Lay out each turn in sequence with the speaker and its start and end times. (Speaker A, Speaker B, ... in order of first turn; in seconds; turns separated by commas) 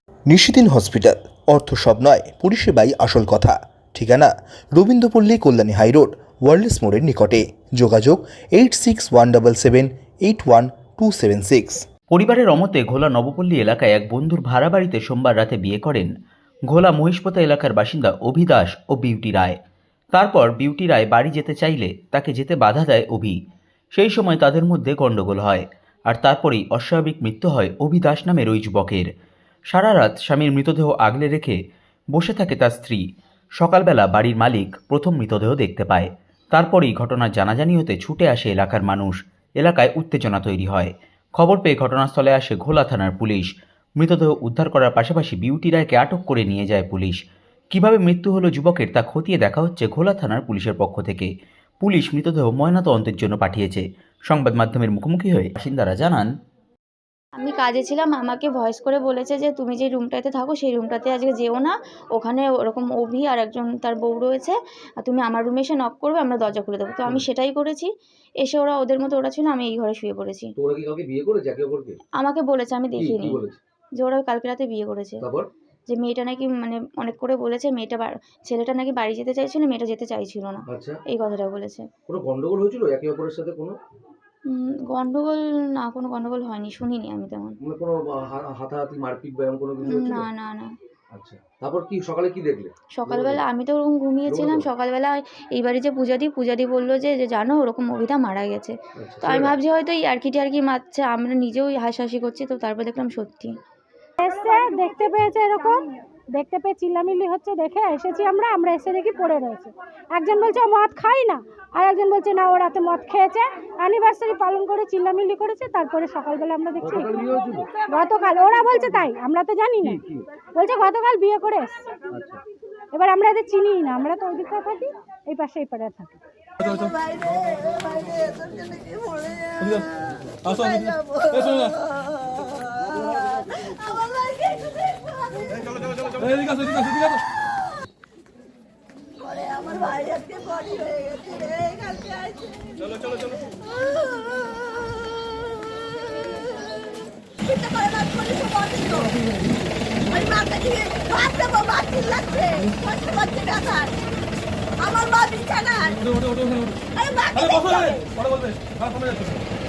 Speaker A: 0.3-11.8, Speaker B: 12.1-16.1, Speaker B: 16.7-19.6, Speaker B: 20.1-23.4, Speaker B: 23.9-29.1, Speaker B: 29.7-31.6, Speaker B: 32.1-33.0, Speaker B: 33.6-47.2, Speaker B: 47.7-51.3, Speaker B: 51.8-56.3, Speaker C: 57.4-67.9, Speaker C: 68.4-70.5, Speaker D: 70.6-72.0, Speaker C: 72.2-73.4, Speaker D: 72.9-73.6, Speaker C: 74.0-75.2, Speaker D: 75.2-75.5, Speaker C: 75.9-81.8, Speaker D: 80.7-81.0, Speaker D: 82.1-83.8, Speaker C: 84.5-87.6, Speaker D: 87.6-90.3, Speaker C: 89.8-90.7, Speaker D: 91.1-93.4, Speaker C: 93.0-103.5, Speaker D: 94.3-94.7, Speaker D: 99.0-99.5, Speaker E: 104.2-120.0, Speaker D: 116.8-117.7, Speaker D: 119.8-120.3, Speaker E: 120.5-121.8, Speaker D: 122.1-122.4, Speaker E: 122.9-126.2, Speaker F: 148.7-149.0, Speaker F: 152.5-152.9, Speaker F: 157.0-158.1